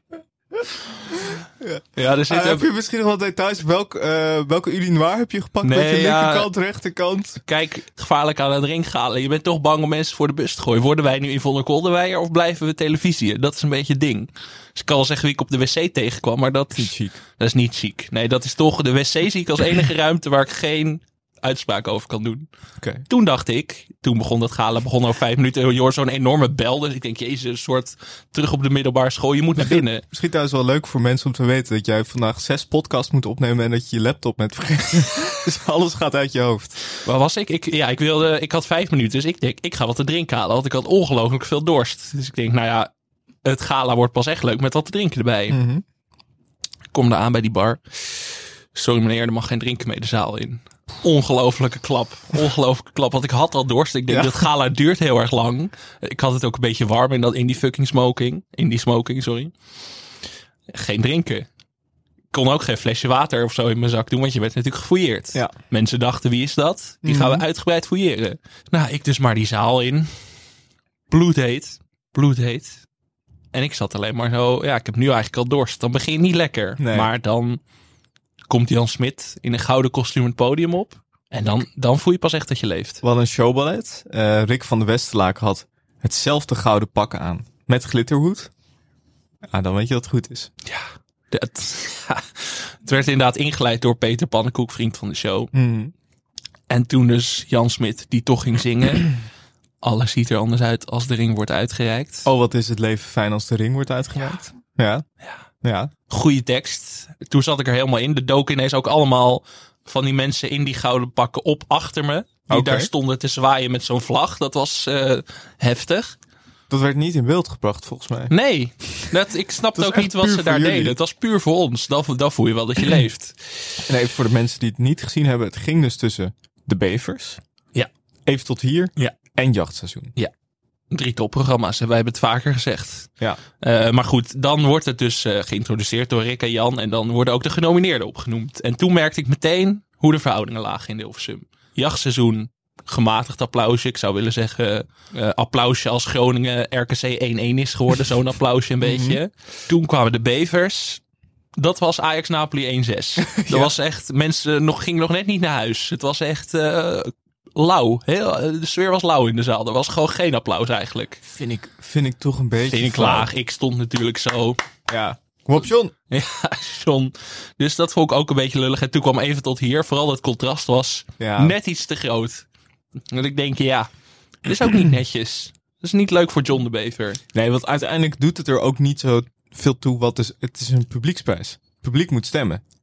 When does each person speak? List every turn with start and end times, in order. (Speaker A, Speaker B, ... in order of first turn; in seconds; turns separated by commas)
Speaker A: 1.6-7.4, Speaker B: 2.0-2.7, Speaker B: 5.6-6.5, Speaker B: 7.5-22.5, Speaker A: 16.7-17.2, Speaker A: 22.8-23.1, Speaker B: 23.1-30.0, Speaker A: 29.6-36.8, Speaker B: 37.0-42.9, Speaker B: 43.4-45.6, Speaker A: 45.5-45.8, Speaker B: 46.9-59.5, Speaker A: 54.1-54.5, Speaker B: 60.7-61.5, Speaker B: 62.3-70.1, Speaker A: 67.0-67.5, Speaker B: 71.1-72.8, Speaker B: 73.5-77.6, Speaker A: 76.8-77.1, Speaker B: 78.5-83.0, Speaker A: 83.0-88.5, Speaker A: 89.5-90.5, Speaker B: 90.7-95.5, Speaker A: 95.5-95.9, Speaker B: 96.7-99.2, Speaker B: 99.8-102.3, Speaker A: 102.3-105.0, Speaker A: 105.6-105.9, Speaker B: 106.1-116.2, Speaker A: 112.5-112.9, Speaker A: 116.7-118.3, Speaker B: 118.3-123.6, Speaker A: 119.8-121.0, Speaker A: 123.9-127.4, Speaker A: 128.3-130.1, Speaker B: 130.9-151.0, Speaker A: 148.8-149.2, Speaker B: 151.6-161.2, Speaker A: 153.2-153.7, Speaker A: 161.2-163.3, Speaker B: 162.7-164.6, Speaker A: 164.9-165.9, Speaker B: 166.1-172.5, Speaker A: 171.2-171.6, Speaker B: 173.1-173.9, Speaker B: 174.4-177.2, Speaker A: 177.3-182.6